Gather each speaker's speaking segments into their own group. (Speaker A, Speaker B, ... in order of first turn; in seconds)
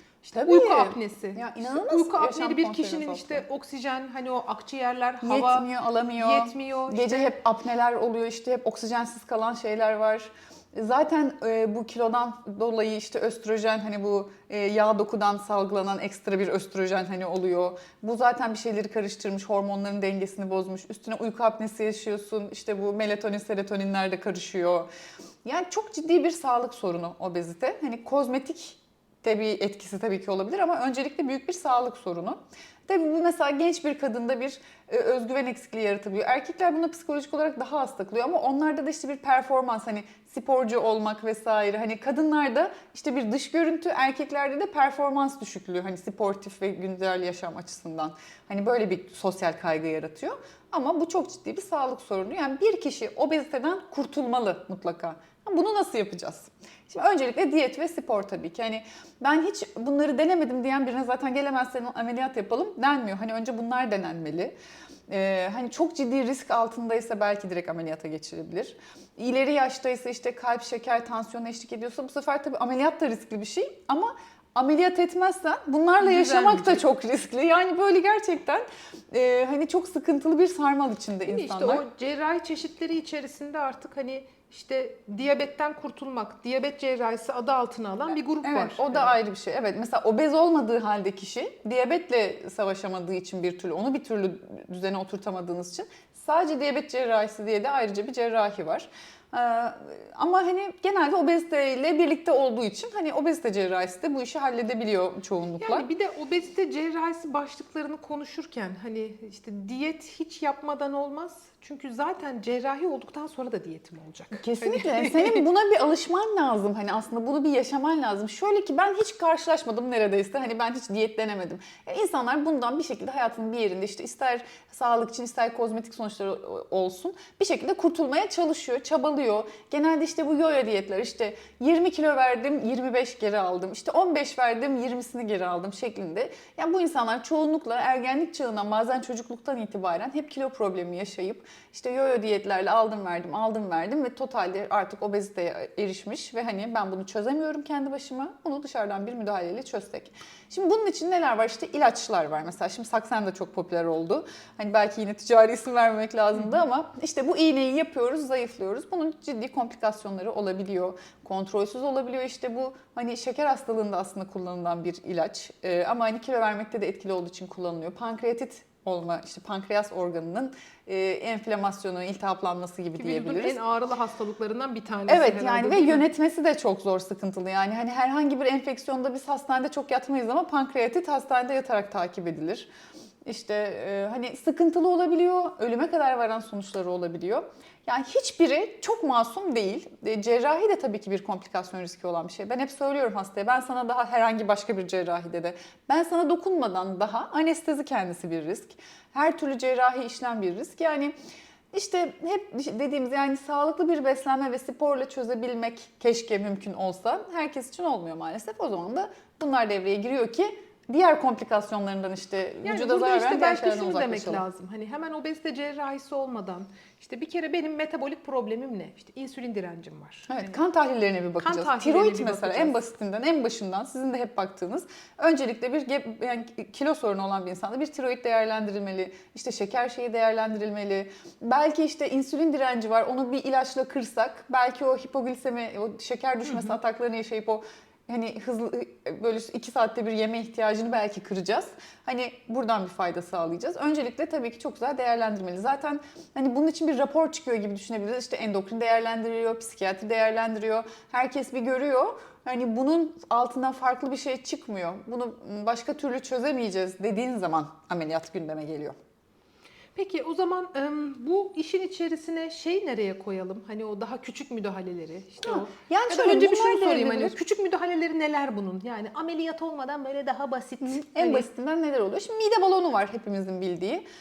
Speaker A: 0.3-7.3, 76.0-76.8, 81.3-89.2, 105.6-115.4, 173.0-176.1, 212.6-220.5, 221.4-222.8, 260.0-271.5
Speaker B: 0.3-3.4, 5.2-24.9, 25.4-64.5, 65.1-81.8, 88.1-105.9, 114.3-173.6, 175.1-182.7, 183.2-201.1, 201.7-214.4, 220.3-258.9, 265.5-267.4, 270.9-274.0